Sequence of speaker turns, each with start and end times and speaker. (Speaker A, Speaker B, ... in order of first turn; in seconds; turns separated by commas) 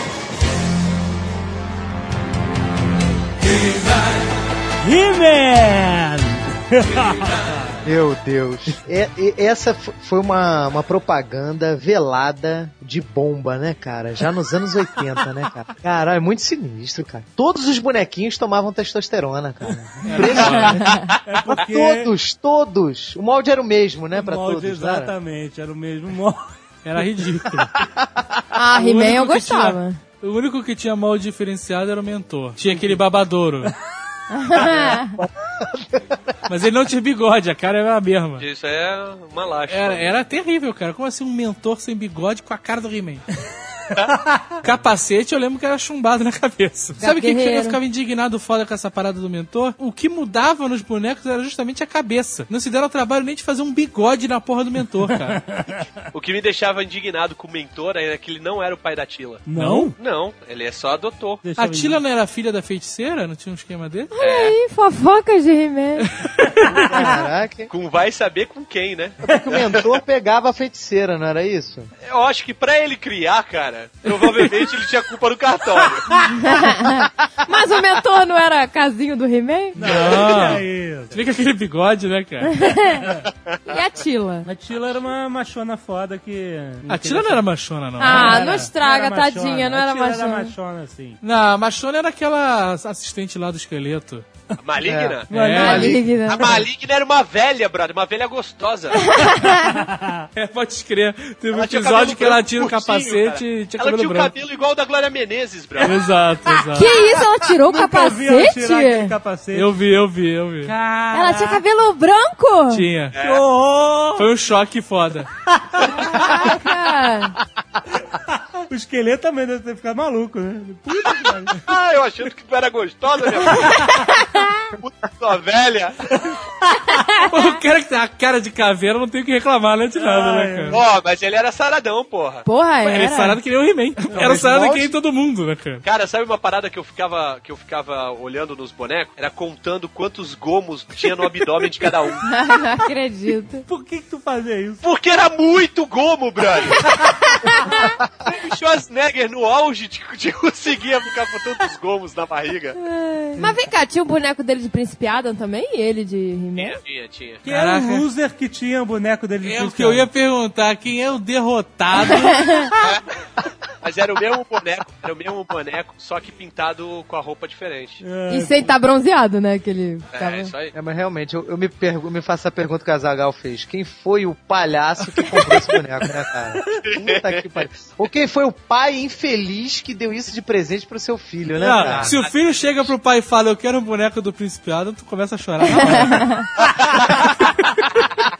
Speaker A: 4.8-7.5, Speaker B: 7.8-20.9, Speaker C: 20.0-20.8, Speaker A: 20.1-22.1, Speaker D: 20.8-21.1, Speaker B: 21.5-25.1, Speaker A: 24.1-26.6, Speaker C: 26.8-27.7, Speaker D: 28.5-30.0, Speaker C: 28.7-33.7, Speaker D: 34.3-35.2, Speaker B: 35.2-36.1, Speaker C: 36.5-38.4, Speaker E: 38.4-40.1, Speaker C: 39.7-43.2, Speaker A: 44.1-44.6, Speaker C: 44.6-55.4, Speaker D: 47.0-47.8, Speaker A: 55.1-55.9, Speaker E: 56.1-59.5, Speaker A: 59.5-59.9, Speaker C: 59.5-59.9, Speaker E: 60.0-61.4, Speaker A: 61.4-62.0, Speaker C: 61.6-64.1, Speaker D: 64.1-66.1, Speaker E: 64.2-64.5, Speaker C: 66.0-66.5, Speaker A: 66.4-66.7, Speaker B: 66.7-67.7, Speaker D: 67.0-67.3, Speaker E: 67.7-69.9, Speaker B: 69.2-71.9, Speaker E: 72.0-76.1, Speaker C: 74.0-74.6, Speaker D: 76.2-79.9, Speaker A: 79.8-81.2, Speaker C: 79.8-82.7, Speaker D: 82.4-83.0, Speaker A: 83.0-83.3, Speaker D: 83.7-84.5, Speaker A: 84.4-87.4, Speaker C: 86.9-88.5, Speaker D: 88.0-90.5, Speaker A: 88.0-91.2, Speaker C: 91.2-94.2, Speaker E: 94.6-95.3, Speaker B: 94.8-96.0, Speaker C: 95.3-95.9, Speaker A: 95.3-96.0, Speaker D: 95.5-96.6, Speaker E: 96.1-99.2, Speaker D: 98.9-99.8, Speaker A: 99.7-100.3, Speaker C: 100.3-104.3, Speaker E: 101.5-106.1, Speaker C: 105.8-106.9, Speaker D: 106.7-109.1, Speaker A: 107.6-109.7, Speaker C: 109.5-110.7, Speaker A: 110.6-111.6, Speaker D: 111.1-112.9, Speaker C: 112.7-113.2, Speaker E: 113.1-113.4, Speaker A: 113.2-114.3, Speaker C: 114.2-115.3, Speaker A: 115.5-116.3, Speaker D: 115.9-117.4, Speaker A: 118.1-121.6, Speaker E: 121.0-124.3, Speaker A: 123.5-124.1, Speaker D: 124.2-124.6, Speaker E: 124.8-126.1, Speaker D: 126.9-127.4, Speaker C: 127.3-130.8, Speaker A: 129.9-130.8, Speaker E: 130.7-132.4, Speaker D: 132.4-133.4, Speaker C: 132.8-135.8, Speaker A: 134.1-134.7, Speaker B: 134.1-134.9, Speaker E: 135.8-142.2, Speaker D: 142.2-143.6, Speaker A: 143.7-144.8, Speaker E: 144.8-146.9, Speaker D: 147.1-147.8, Speaker E: 148.2-152.8, Speaker D: 152.8-156.8, Speaker E: 156.6-157.4, Speaker A: 157.4-160.1, Speaker C: 157.5-158.1, Speaker C: 159.4-162.7, Speaker D: 161.9-162.7, Speaker E: 163.8-168.0, Speaker A: 168.0-168.7, Speaker D: 168.3-170.5, Speaker E: 170.1-170.7, Speaker B: 170.7-182.2, Speaker E: 176.7-177.7, Speaker C: 181.6-186.3, Speaker E: 181.8-182.9, Speaker D: 185.6-186.5, Speaker E: 186.6-187.3